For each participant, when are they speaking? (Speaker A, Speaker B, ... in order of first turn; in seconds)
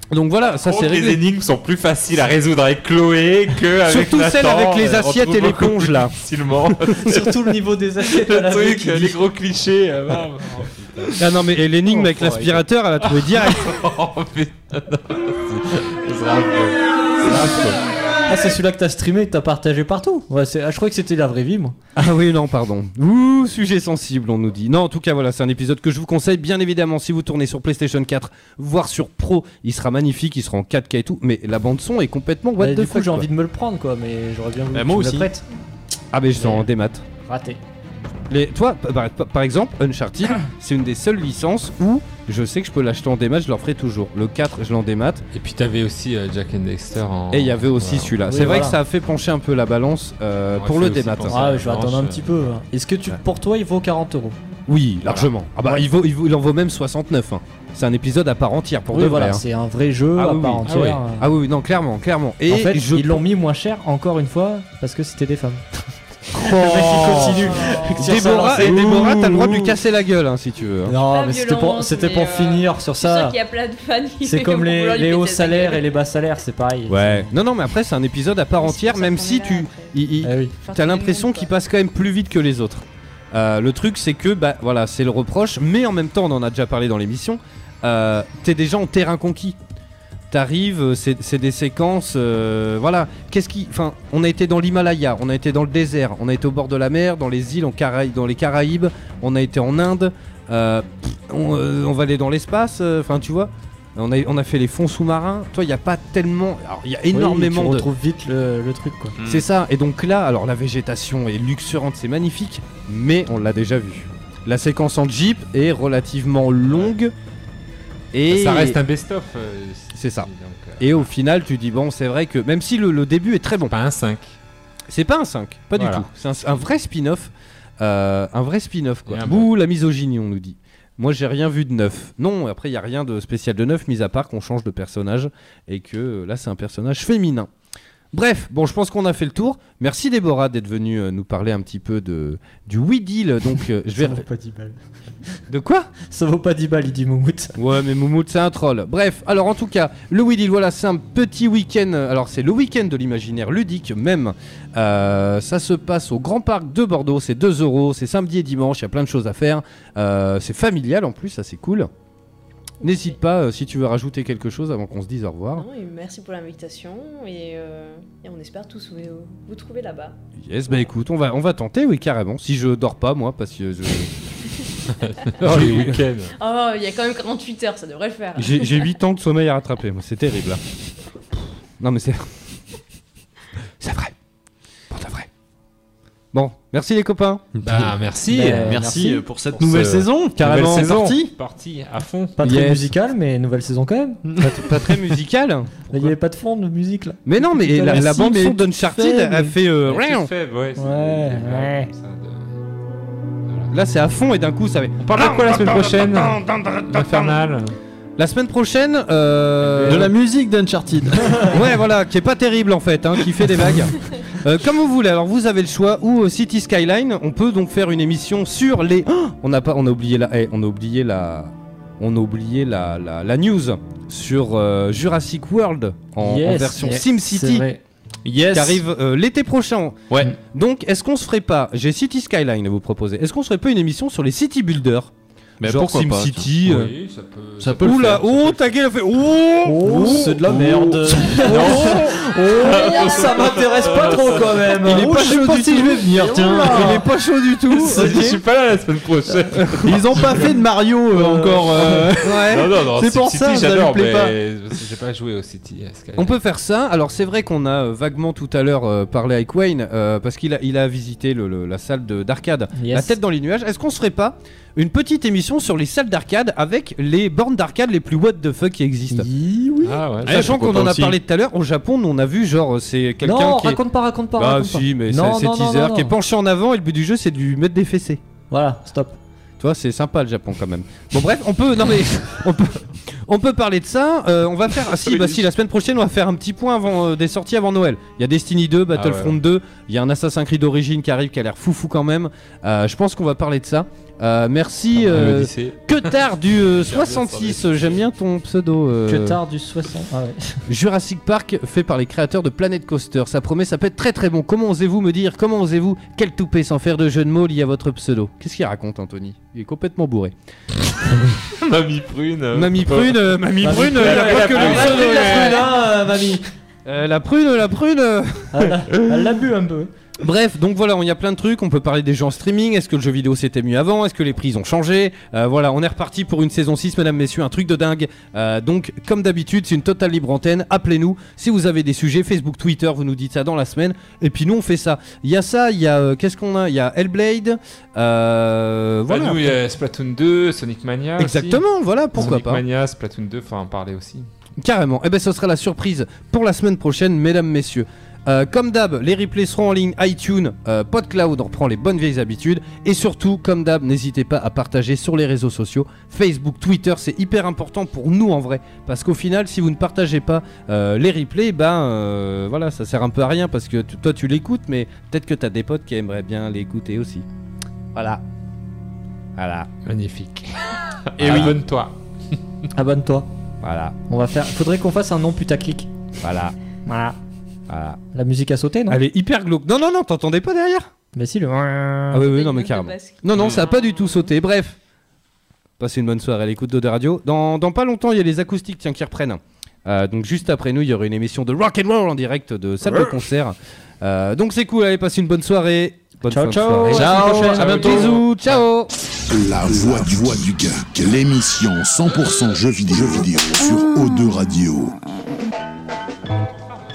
Speaker A: 0.1-1.2, 3.8-6.1, 11.2-13.7, 21.9-33.3, 36.1-37.0, 38.3-45.2, 47.3-51.4, 54.7-59.4, 60.1-63.2, 66.3-70.9, 76.9-89.6, 90.3-107.8, 109.2-117.1, 118.1-118.8, 119.9-120.3, 120.8-123.7, 124.9-137.5, 138.1-144.2, 145.5-145.9, 147.6-161.9, 162.8-165.7, 170.4-174.1, 175.4-176.0, 178.3-180.6, 181.8-182.3, 183.8-184.1, 184.9-185.3, 186.3-187.5, 190.4-191.3, 192.4-192.8, 194.4-196.1, 197.2-200.3, 203.7-207.4, 208.2-210.1, 211.4-227.7, 228.2-235.1, 235.6-236.9, 237.8-240.9, 241.4-242.1, 244.8-248.4, 249.7-250.0, 252.2-252.7, 256.2-269.3, 270.2-273.8, 274.4-278.2, 279.6-299.4, 300.7-310.3, 312.5-315.7, 316.9-319.3, 320.2-339.6, 341.2-342.6, 344.6-367.2, 367.9-368.2, 369.4-369.7, 371.2-371.6, 373.6-373.9, 376.2-376.5, 377.7-378.0, 378.9-380.9, 382.1-384.8, 385.8-398.9
Speaker B: 0.6-7.3, 8.1-11.3, 11.8-17.9, 45.3-48.1, 50.5-52.2, 60.6-61.0, 118.3-121.1, 123.7-124.4, 125.8-126.0, 129.1-129.5, 174.9-176.3, 187.6-188.8, 189.6-192.7, 199.8-202.5, 203.5-203.7, 205.0-207.8, 209.6-210.1, 236.6-238.8, 241.4-244.8, 247.7-250.5, 251.8-256.4, 269.8-270.6, 288.9-289.4, 294.9-298.0, 311.6-315.7, 339.1-341.6, 342.1-344.3, 369.8-371.9, 397.0-398.0
Speaker C: 7.0-9.2, 18.3-21.8, 32.6-35.4, 36.3-36.7, 37.2-37.6, 48.2-48.8, 51.3-54.4, 58.9-61.3, 62.5-65.6, 66.3-69.7, 70.9-73.4, 74.2-77.3, 80.2-80.5, 107.1-109.2, 144.0-144.8, 146.1-147.5, 188.3-189.2, 192.4-194.2, 195.9-199.5, 200.8-201.9, 226.2-227.8, 239.6-245.4, 246.2-247.0, 262.7-263.1, 269.1-270.0, 273.2-276.1, 278.5-279.2, 299.1-300.6, 313.6-316.4, 318.5-319.9, 372.7-373.3, 374.1-375.9, 376.9-377.2, 378.1-379.0, 381.1-382.2, 396.3-398.1
Speaker D: 34.7-35.3, 109.2-109.5, 187.6-187.9, 188.7-191.0, 197.9-198.2, 209.8-211.6, 235.6-236.5, 237.6-238.2, 239.8-241.6, 244.8-247.0, 248.0-248.3, 249.8-254.3, 270.2-271.2, 371.2-371.5, 383.4-383.6, 396.9-398.2
Speaker E: 71.0-75.9, 78.6-79.9, 80.6-81.5, 162.8-163.2, 165.5-170.2, 176.3-178.9, 382.2-384.3
Speaker F: 399.3-405.0